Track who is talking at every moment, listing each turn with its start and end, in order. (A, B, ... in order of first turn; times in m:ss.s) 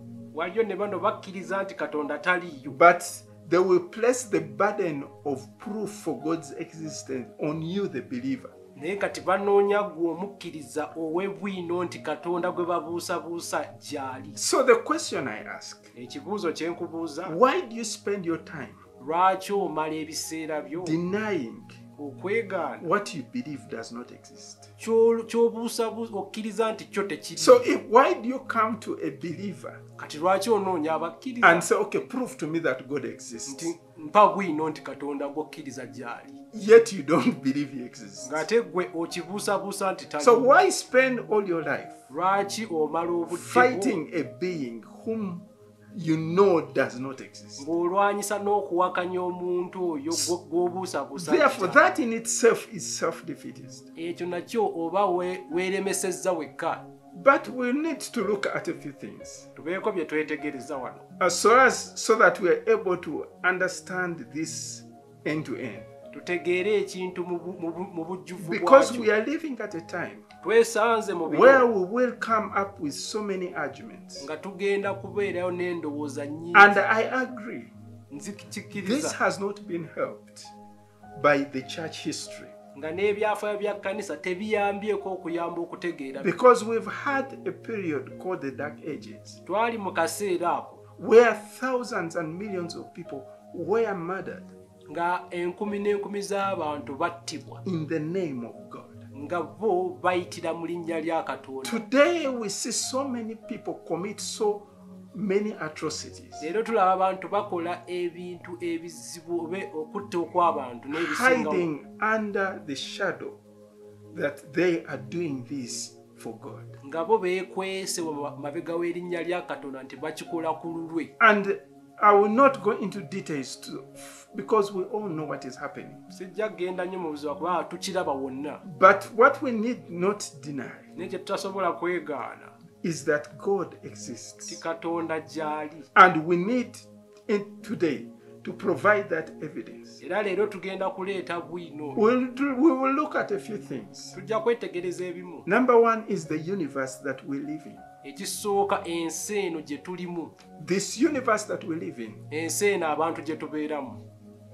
0:00.3-0:02.8 A
0:02.7-0:08.5 B
0:08.8-0:14.4 A
0:14.4-0:15.9 B
0:15.9-0:17.4 A
0:17.2-0:18.8 B
0:19.0-0:21.0 A
0:20.8-0:21.8 B
0:22.0-0:22.9 A
0:22.8-0:24.7 B
0:24.8-0:27.7 A
0:27.4-0:29.8 B
0:30.0-0:31.7 A
0:31.4-0:33.7 B
0:33.5-0:36.4 A
0:36.5-0:38.4 B
0:38.2-0:40.6 A
0:40.2-0:42.0 B
0:42.1-0:44.0 A
0:43.3-0:47.6 B
0:47.6-0:51.8 A
0:51.2-0:53.9 B
0:53.9-0:56.8 A
0:57.1-0:59.5 B
0:59.6-1:01.0 A
1:01.2-1:05.9 B
1:06.1-1:09.0 A
1:08.4-1:10.2 B
1:10.4-1:11.7 A
1:11.2-1:14.3 B
1:14.2-1:16.8 A
1:16.5-1:17.7 B
1:18.1-1:19.2 A
1:18.7-1:20.5 B
1:21.2-1:22.5 B
1:22.7-1:26.3 A
1:26.2-1:29.4 B
1:29.4-1:30.8 A
1:31.0-1:34.5 B
1:34.9-1:37.6 A
1:37.6-1:39.0 B
1:39.1-1:41.8 A
1:41.6-1:46.5 B
1:46.4-1:51.7 A
1:50.9-1:53.4 B
1:54.1-1:56.7 B
1:56.8-2:01.1 A
2:01.2-2:06.0 B
2:06.1-2:08.6 A
2:08.6-2:10.9 B
2:11.0-2:12.5 A
2:12.8-2:14.6 B
2:14.4-2:15.9 A
2:15.9-2:20.0 B
2:20.0-2:22.0 A
2:21.9-2:24.2 B
2:24.1-2:25.5 A
2:25.4-2:27.8 B
2:28.0-2:30.3 A
2:30.6-2:32.2 B
2:32.3-2:34.0 A